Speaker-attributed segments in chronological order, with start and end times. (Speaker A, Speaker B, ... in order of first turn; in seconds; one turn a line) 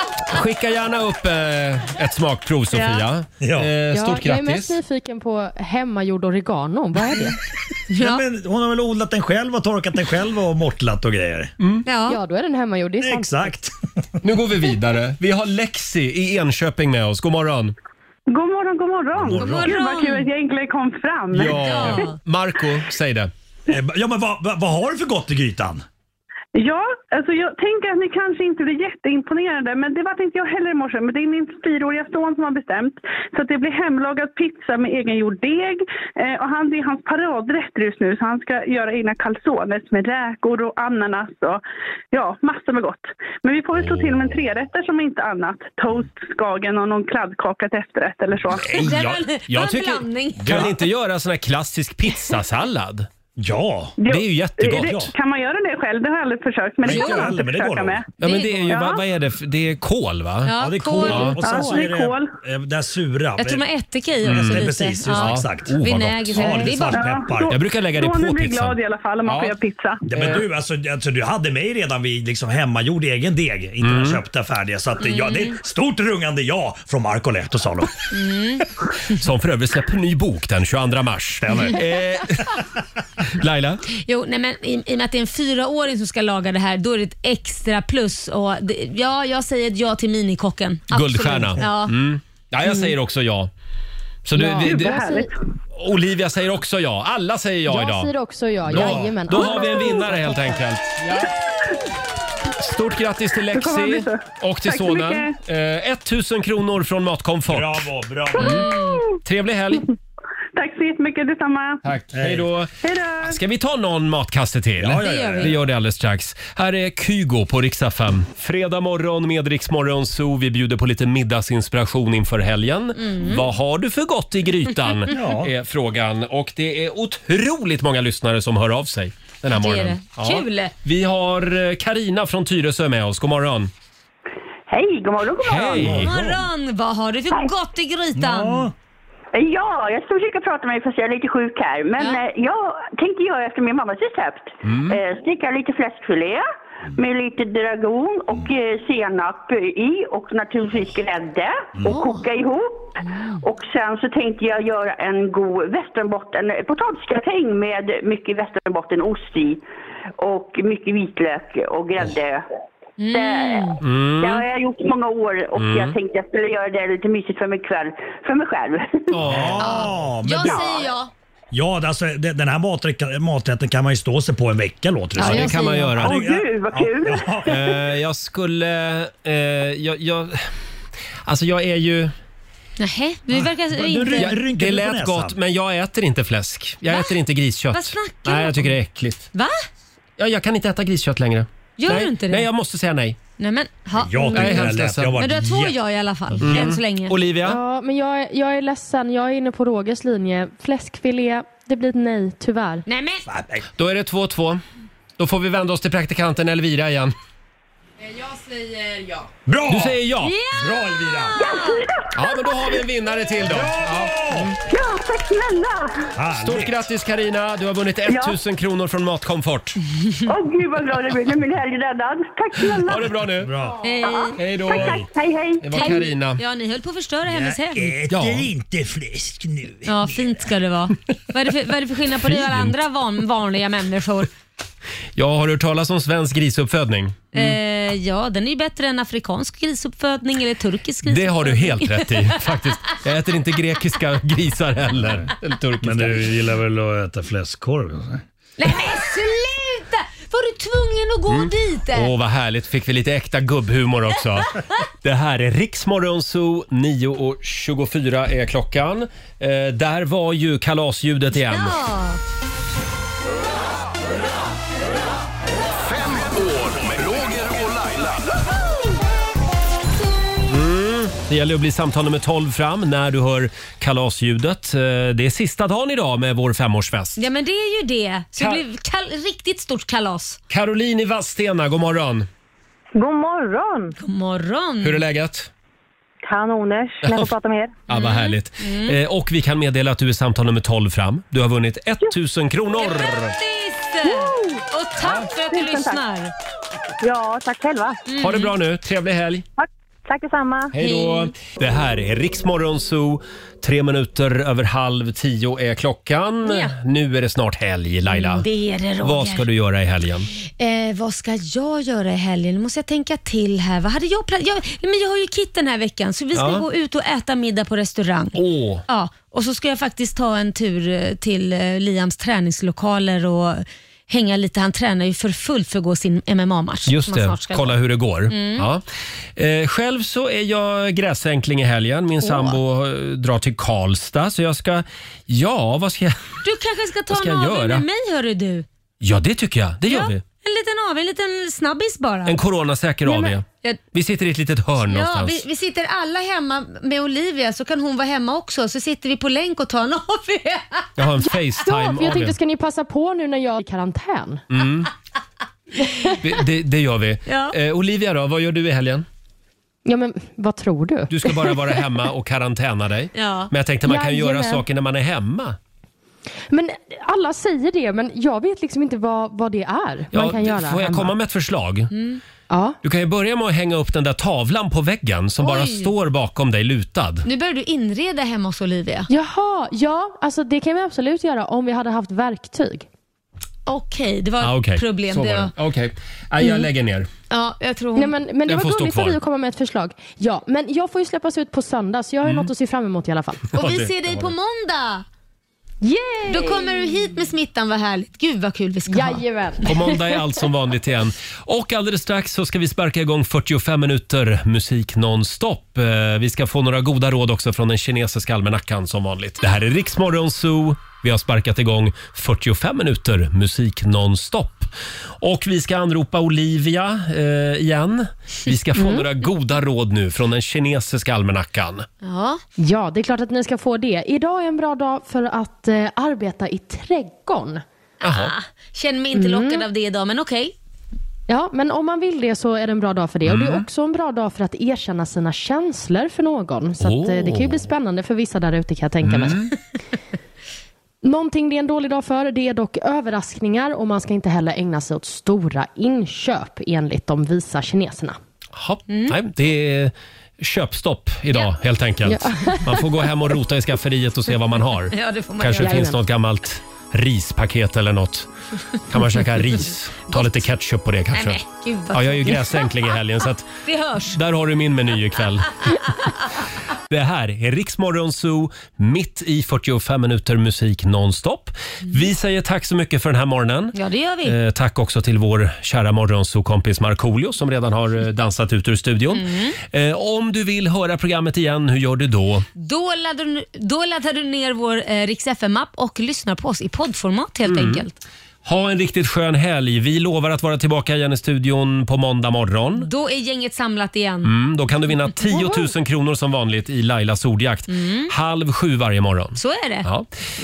Speaker A: 0.3-4.7
Speaker B: 2.8-3.0
Speaker C: 3.4-3.7
Speaker D: 3.9-7.4
Speaker B: 7.9-8.2
Speaker C: 7.9-11.5
Speaker A: 11.6-11.8
Speaker B: 11.8-12.2
Speaker D: 12.1-13.6
Speaker C: 13.0-13.7
Speaker A: 14.2-17.7
Speaker E: 18.3-21.5
Speaker C: 19.1-19.7
Speaker B: 19.3-20.3
Speaker A: 21.3-23.3
Speaker B: 21.4-22.2
Speaker C: 23.7-25.8
Speaker E: 26.6-48.7
Speaker A: 43.8-44.4
Speaker A: 48.5-53.1
Speaker B: 48.6-50.8
Speaker C: 50.4-50.8
Speaker C: 53.4-53.9
Speaker E: 54.0-58.0
Speaker A: 54.0-55.1
Speaker C: 56.8-58.0
Speaker B: 56.8-57.4
Speaker A: 58.2-61.4
Speaker B: 58.2-59.0
Speaker E: 58.7-59.0
Speaker B: 60.5-61.8
Speaker C: 60.6-63.6
Speaker E: 61.4-62.3
Speaker B: 63.4-67.1
Speaker A: 64.2-66.5
Speaker C: 64.2-65.8
Speaker C: 66.3-67.5
Speaker E: 66.9-70.0
Speaker A: 67.5-69.5
Speaker C: 70.1-77.9
Speaker A: 70.1-70.5
Speaker A: 73.8-74.2
Speaker B: 75.0-75.6
Speaker B: 78.1-78.7
Speaker A: 79.1-82.5
Speaker C: 81.4-81.8
Speaker A: 83.3-83.8
Speaker B: 83.9-91.9
Speaker A: 90.9-93.5
Speaker A: 94.2-95.0
Speaker D: 94.3-95.3
Speaker E: 94.6-95.3
Speaker A: 95.7-98.1
Speaker D: 97.7-100.5
Speaker C: 98.7-99.3
Speaker A: 98.7-101.4
Speaker A: 102.6-107.8
Speaker E: 103.5-105.4
Speaker C: 107.5-108.8
Speaker B: 108.4-109.0
Speaker A: 109.2-109.9
Speaker E: 110.5-111.8
Speaker A: 111.8-133.7
Speaker C: 112.1-112.5
Speaker E: 112.8-113.3
Speaker C: 114.8-115.6
Speaker B: 115.0-115.5
Speaker B: 123.0-123.4
Speaker B: 124.9-125.2
Speaker C: 125.1-125.5
Speaker B: 129.5-130.7
Speaker F: 134.7-135.9
Speaker A: 135.4-136.1
Speaker C: 135.8-136.4
Speaker B: 136.0-138.7
Speaker C: 138.1-138.7
Speaker F: 139.3-146.4
Speaker A: 144.6-145.0
Speaker F: 146.9-159.6
Speaker B: 151.9-152.2
Speaker B: 153.1-153.3
Speaker F: 160.2-162.4
Speaker B: 163.0-163.8
Speaker F: 163.1-169.1
Speaker A: 163.8-164.4
Speaker A: 165.6-165.9
Speaker A: 169.1-169.8
Speaker C: 169.2-170.9
Speaker B: 169.6-171.1
Speaker C: 171.5-177.5
Speaker B: 175.2-175.9
Speaker A: 175.2-176.1
Speaker F: 176.0-177.6
Speaker A: 177.4-180.5
Speaker A: 181.3-182.1
Speaker B: 182.8-184.4
Speaker C: 183.3-185.4
Speaker A: 184.2-189.3
Speaker B: 186.9-187.1
Speaker B: 187.7-188.7
Speaker B: 189.3-189.6
Speaker A: 190.2-193.2
Speaker B: 191.8-192.5
Speaker B: 193.4-197.2
Speaker C: 194.0-195.8
Speaker A: 194.3-195.2
Speaker A: 196.4-197.6
Speaker D: 197.4-202.8
Speaker B: 202.9-203.2
Speaker C: 203.3-203.7
Speaker A: 203.8-204.6
Speaker A: 205.2-207.1
Speaker C: 209.4-210.0
Speaker A: 209.7-210.3
Speaker B: 210.2-211.8
Speaker C: 210.6-211.4
Speaker F: 211.3-211.9
Speaker A: 212.1-214.6
Speaker C: 213.4-214.6
Speaker F: 214.7-216.1
Speaker C: 216.2-216.7
Speaker A: 216.3-219.8
Speaker F: 218.1-218.3
Speaker F: 220.3-223.1
Speaker A: 222.8-223.5
Speaker C: 223.4-223.8
Speaker B: 223.8-224.4
Speaker F: 224.1-226.0
Speaker A: 224.3-225.0
Speaker C: 224.7-225.1
Speaker A: 225.6-226.4
Speaker B: 225.7-228.0
Speaker C: 227.3-230.5
Speaker A: 228.1-228.5
Speaker B: 229.8-234.3
Speaker A: 232.2-232.8
Speaker A: 235.2-237.6
Speaker B: 237.3-242.6
Speaker A: 241.1-246.3
Speaker C: 245.8-248.2
Speaker B: 248.6-252.1
Speaker A: 251.3-261.8
Speaker B: 261.3-262.2
Speaker G: 265.8-268.3
Speaker A: 270.5-277.2
Speaker B: 277.2-280.4
Speaker A: 278.4-278.6
Speaker A: 280.5-282.3
Speaker H: 282.9-283.9
Speaker B: 284.0-285.1
Speaker A: 284.8-285.5
Speaker H: 286.3-287.7
Speaker A: 287.0-287.3
Speaker A: 287.9-293.3
Speaker B: 287.9-288.9
Speaker B: 292.8-296.3
Speaker A: 295.0-295.3
Speaker H: 297.0-298.0
Speaker B: 298.1-298.5
Speaker A: 298.2-299.4
Speaker H: 299.6-300.7
Speaker A: 300.7-308.4
Speaker B: 300.8-301.3
Speaker B: 306.4-306.7
Speaker B: 308.1-309.5
Speaker A: 309.0-310.3
Speaker B: 310.6-318.4
Speaker A: 316.3-316.6
Speaker A: 318.3-318.8
Speaker B: 318.9-327.8
Speaker A: 326.9-328.8
Speaker B: 328.3-328.6
Speaker A: 329.4-336.4
Speaker B: 332.2-332.6
Speaker B: 336.4-338.6
Speaker A: 337.1-337.8
Speaker A: 339.0-340.2
Speaker B: 339.9-342.4
Speaker A: 342.3-345.4
Speaker B: 343.1-343.8
Speaker B: 344.9-351.3
Speaker A: 351.0-352.4
Speaker D: 351.6-354.4
Speaker A: 354.5-354.9
Speaker A: 356.0-359.1
Speaker B: 357.3-357.6
Speaker D: 359.8-361.8
Speaker A: 361.1-365.6
Speaker B: 363.1-363.5
Speaker D: 363.9-364.6
Speaker D: 366.5-371.1
Speaker A: 370.1-371.9
Speaker B: 371.9-372.2
Speaker D: 372.5-372.8
Speaker A: 372.8-377.3
Speaker B: 375.4-375.9
Speaker B: 377.3-379.1
Speaker D: 379.1-382.9
Speaker B: 383.6-385.5
Speaker A: 384.4-387.1
Speaker B: 387.3-388.1
Speaker D: 387.9-393.4
Speaker A: 388.5-389.2
Speaker A: 392.2-392.5
Speaker A: 393.5-394.3
Speaker B: 393.6-395.1
Speaker D: 395.8-397.1
Speaker B: 396.3-399.2
Speaker D: 398.9-400.2
Speaker A: 399.6-414.7
Speaker A: 415.2-421.9
Speaker B: 422.0-422.4
Speaker D: 422.6-427.6
Speaker B: 428.0-430.6
Speaker A: 428.0-428.3
Speaker D: 429.1-429.6
Speaker D: 431.3-439.5
Speaker A: 433.3-433.6
Speaker A: 436.8-437.6
Speaker A: 439.0-439.5
Speaker D: 441.0-448.2
Speaker A: 448.6-458.3
Speaker B: 448.9-449.1
Speaker D: 452.1-452.8
Speaker B: 454.9-455.9
Speaker D: 455.6-456.0
Speaker A: 458.9-461.4
Speaker B: 460.1-460.5
Speaker B: 461.1-462.8
Speaker A: 461.9-463.6
Speaker B: 463.6-464.2
Speaker A: 464.1-465.6
Speaker A: 466.9-482.4
Speaker B: 473.7-474.4
Speaker B: 479.1-479.6
Speaker B: 482.6-488.0
Speaker A: 487.5-487.8
Speaker A: 488.4-492.9
Speaker B: 492.8-494.3
Speaker A: 494.2-500.1
Speaker D: 495.3-495.7
Speaker B: 497.7-498.1
Speaker B: 499.4-499.9